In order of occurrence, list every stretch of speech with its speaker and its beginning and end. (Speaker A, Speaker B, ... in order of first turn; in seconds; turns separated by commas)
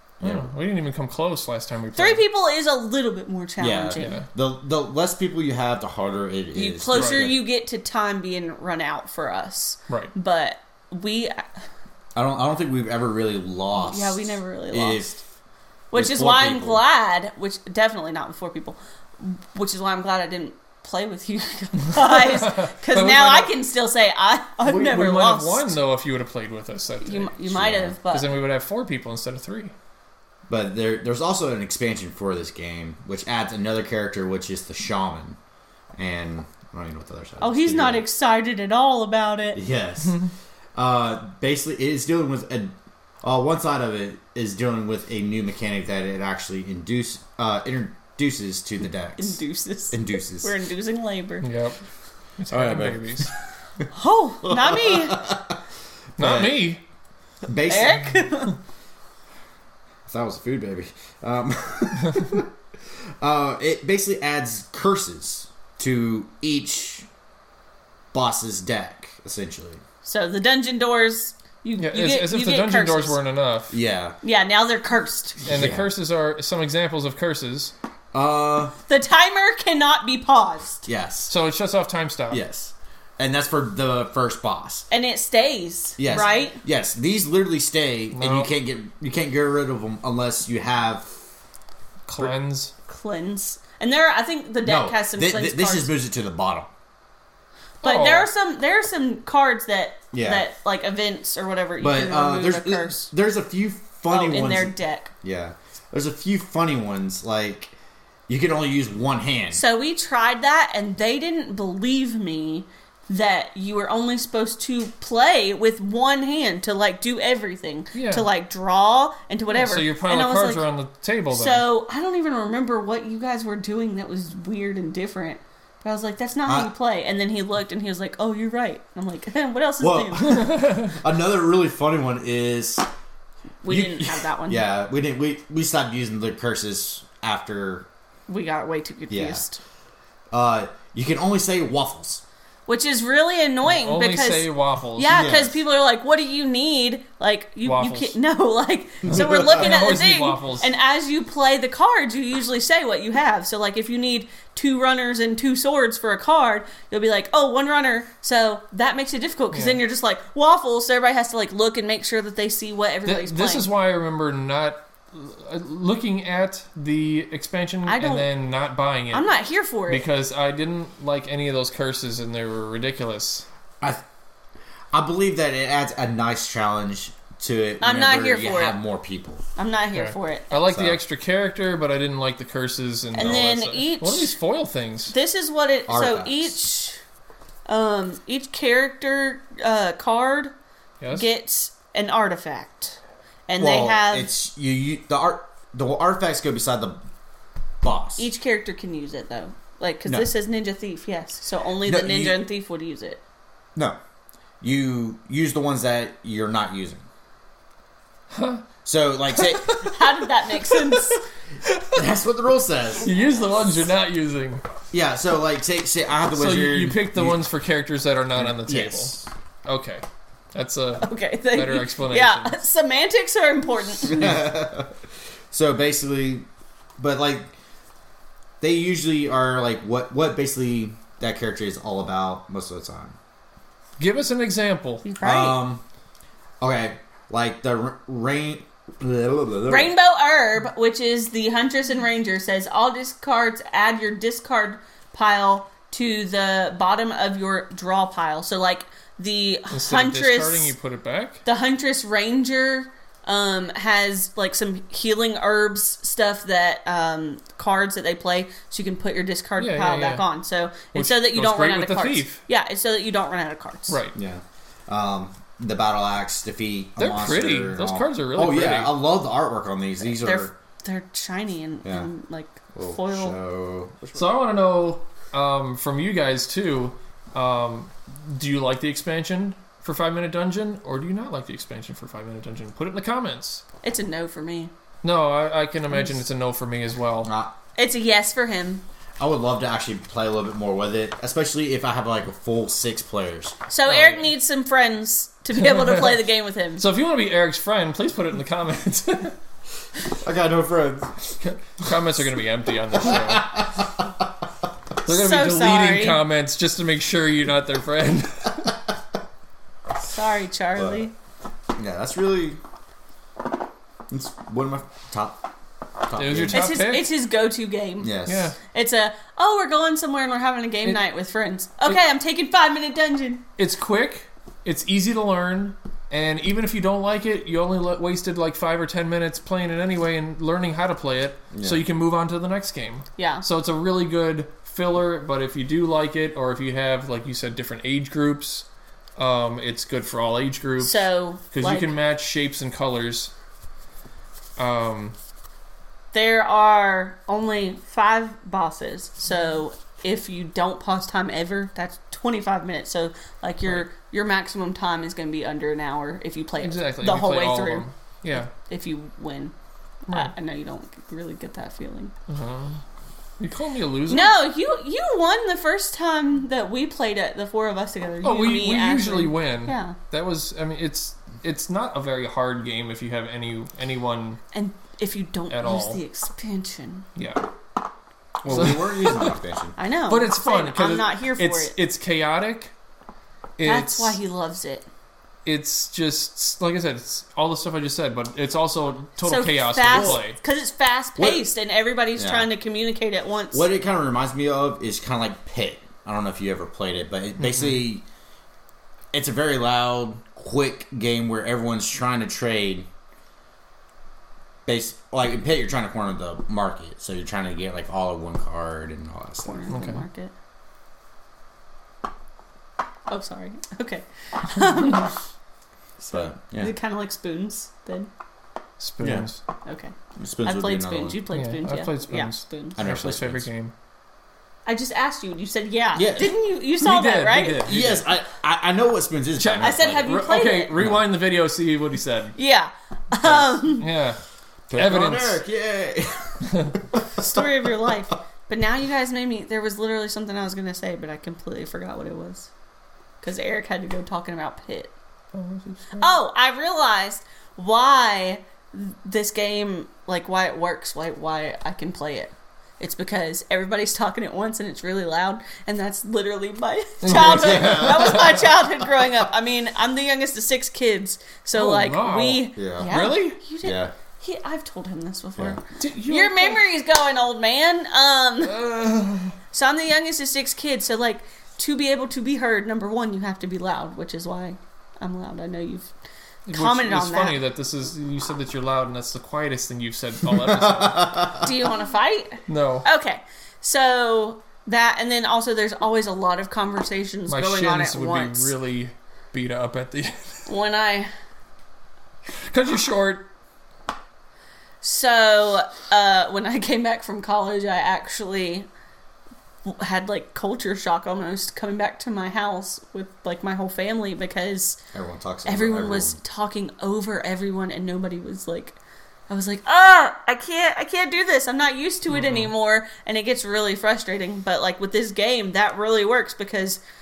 Speaker A: 0.2-2.2, Speaker B: 0.2-0.5, Speaker C: 1.9-4.2, Speaker B: 3.6-7.4, Speaker A: 3.9-4.3, Speaker C: 6.5-11.5, Speaker A: 6.9-7.3, Speaker A: 9.9-10.1, Speaker B: 12.1-15.2, Speaker C: 13.7-15.1, Speaker C: 15.9-25.7, Speaker B: 15.9-16.8, Speaker A: 21.8-23.6, Speaker A: 24.6-29.7, Speaker C: 27.0-28.4, Speaker B: 27.4-28.0, Speaker B: 30.5-35.4, Speaker B: 36.0-38.0, Speaker C: 37.4-39.6, Speaker B: 39.5-49.4, Speaker C: 49.2-51.5, Speaker B: 49.9-50.6, Speaker A: 51.4-51.8, Speaker A: 52.4-53.3, Speaker B: 52.5-53.4, Speaker C: 53.9-55.3, Speaker B: 54.4-55.6, Speaker B: 56.2-56.7, Speaker A: 56.2-56.8, Speaker B: 57.5-58.1, Speaker C: 57.7-58.6, Speaker B: 60.1-62.5, Speaker B: 63.2-67.1, Speaker B: 68.1-69.8, Speaker C: 70.0-73.2, Speaker A: 71.8-73.7, Speaker B: 73.7-74.2, Speaker C: 74.2-75.5, Speaker A: 75.4-77.7, Speaker B: 75.4-75.9, Speaker B: 78.1-78.7, Speaker C: 78.9-80.8, Speaker B: 80.8-81.3, Speaker A: 81.3-82.4, Speaker B: 82.3-84.9, Speaker C: 84.9-86.6, Speaker B: 86.0-91.1, Speaker A: 88.1-88.5, Speaker A: 92.1-92.7, Speaker C: 92.9-95.9, Speaker B: 94.6-96.7, Speaker A: 97.8-98.3, Speaker C: 97.8-103.1, Speaker B: 100.1-100.5, Speaker B: 101.8-107.7, Speaker C: 104.1-105.1, Speaker B: 108.3-109.6, Speaker C: 109.5-120.7, Speaker A: 117.9-118.3, Speaker A: 119.5-121.7, Speaker C: 121.3-130.4, Speaker B: 126.5-126.7, Speaker B: 129.8-132.9, Speaker A: 130.4-130.9, Speaker C: 133.6-134.6, Speaker B: 133.7-137.9, Speaker C: 138.3-139.6, Speaker B: 139.1-139.4, Speaker B: 140.3-142.2, Speaker C: 142.7-163.7, Speaker A: 143.6-145.2, Speaker B: 145.1-145.6, Speaker A: 147.6-148.2, Speaker A: 149.1-150.7, Speaker B: 149.1-149.7, Speaker A: 159.5-159.8, Speaker A: 163.0-173.4, Speaker C: 167.9-168.3, Speaker C: 169.1-170.0, Speaker B: 174.9-179.4, Speaker C: 177.8-178.8, Speaker C: 179.6-180.6, Speaker A: 179.9-185.2, Speaker B: 180.6-181.0, Speaker C: 183.1-184.3, Speaker B: 183.2-183.4, Speaker C: 185.1-187.0, Speaker B: 185.9-186.6, Speaker C: 187.7-190.5, Speaker A: 191.0-191.3, Speaker C: 191.1-194.3, Speaker B: 193.6-197.0, Speaker B: 197.8-198.3, Speaker C: 198.2-203.2, Speaker B: 201.8-202.5, Speaker B: 204.6-207.1, Speaker A: 208.3-208.7, Speaker B: 208.8-209.9, Speaker A: 209.3-212.0, Speaker C: 209.8-211.2, Speaker B: 211.9-213.1, Speaker A: 213.0-214.6, Speaker B: 214.9-217.4, Speaker A: 216.3-222.6, Speaker B: 218.3-219.3, Speaker C: 221.0-224.3, Speaker B: 224.0-224.9, Speaker B: 225.5-227.5, Speaker B: 228.6-233.2, Speaker A: 234.0-235.1, Speaker C: 235.0-235.6, Speaker B: 235.2-235.8, Speaker B: 236.6-239.9, Speaker C: 239.7-250.7, Speaker A: 249.7-251.4, Speaker C: 251.4-264.0, Speaker A: 259.6-260.3, Speaker A: 260.9-262.4, Speaker A: 263.9-264.1, Speaker B: 264.1-270.5, Speaker A: 267.0-269.0, Speaker C: 270.1-273.4, Speaker B: 271.8-272.1, Speaker B: 272.7-274.3, Speaker A: 274.1-283.6, Speaker C: 283.8-284.7, Speaker A: 285.0-287.3, Speaker B: 287.2-287.6, Speaker C: 287.8-288.8, Speaker B: 289.2-293.6, Speaker C: 293.7-296.8, Speaker A: 293.8-294.4, Speaker A: 295.6-296.2, Speaker A: 296.8-299.4, Speaker B: 300.1-301.4, Speaker A: 301.4-303.5, Speaker B: 303.0-304.1, Speaker A: 305.1-308.8, Speaker C: 305.2-306.2, Speaker C: 310.1-311.1, Speaker B: 310.8-311.1, Speaker B: 311.8-312.6, Speaker B: 314.1-315.5, Speaker B: 316.0-316.6, Speaker A: 316.1-317.1, Speaker C: 316.5-318.1, Speaker B: 318.0-318.5, Speaker A: 318.2-318.6, Speaker C: 318.7-323.4, Speaker A: 320.8-321.2, Speaker A: 323.6-343.3, Speaker B: 331.5-331.8, Speaker C: 333.2-333.4, Speaker C: 340.8-341.9, Speaker A: 344.6-345.1, Speaker C: 346.1-359.5, Speaker A: 356.6-358.5, Speaker A: 360.1-360.3, Speaker C: 360.1-362.1, Speaker A: 362.3-362.8, Speaker A: 363.4-364.4, Speaker C: 364.1-370.0, Speaker A: 368.2-374.4, Speaker C: 374.5-377.1, Speaker A: 375.5-376.0, Speaker A: 377.1-377.5, Speaker B: 378.4-379.8, Speaker A: 378.4-379.4, Speaker C: 379.8-381.7, Speaker A: 380.1-382.7, Speaker A: 383.6-384.2, Speaker C: 383.6-384.9, Speaker A: 385.4-390.4, Speaker C: 389.2-393.6, Speaker B: 389.9-390.2, Speaker B: 391.2-391.5, Speaker B: 392.1-392.5, Speaker B: 393.5-398.0, Speaker A: 397.4-397.8, Speaker B: 399.1-402.9, Speaker B: 404.6-409.7, Speaker C: 409.4-410.3, Speaker A: 409.7-410.0, Speaker C: 413.1-415.2, Speaker C: 416.0-418.1, Speaker B: 416.1-416.7, Speaker A: 418.8-419.4, Speaker B: 419.0-419.2, Speaker C: 419.6-422.8, Speaker B: 420.2-421.2, Speaker A: 421.3-423.7, Speaker B: 422.8-423.5, Speaker C: 424.6-427.6, Speaker B: 425.9-426.4, Speaker A: 426.8-428.1, Speaker B: 427.6-430.1, Speaker A: 429.4-432.4, Speaker C: 429.6-430.9, Speaker C: 432.4-433.9, Speaker A: 433.2-434.2, Speaker B: 434.7-437.4, Speaker A: 434.7-435.4, Speaker C: 437.1-442.5, Speaker C: 443.2-444.9, Speaker A: 445.3-446.1, Speaker C: 446.0-468.6, Speaker A: 457.0-458.7, Speaker B: 457.0-458.3, Speaker A: 461.5-463.4, Speaker B: 462.5-462.9, Speaker B: 463.6-463.9, Speaker A: 465.8-466.6, Speaker A: 468.4-469.4, Speaker C: 469.5-475.9, Speaker A: 476.5-481.3, Speaker C: 476.5-477.4, Speaker B: 480.5-481.5, Speaker C: 481.4-488.5, Speaker A: 482.5-482.9, Speaker A: 487.3-490.6, Speaker C: 490.5-491.1, Speaker A: 492.4-493.3, Speaker C: 494.8-498.7, Speaker C: 499.6-504.8, Speaker B: 504.9-506.2, Speaker C: 505.4-516.8, Speaker A: 512.1-512.5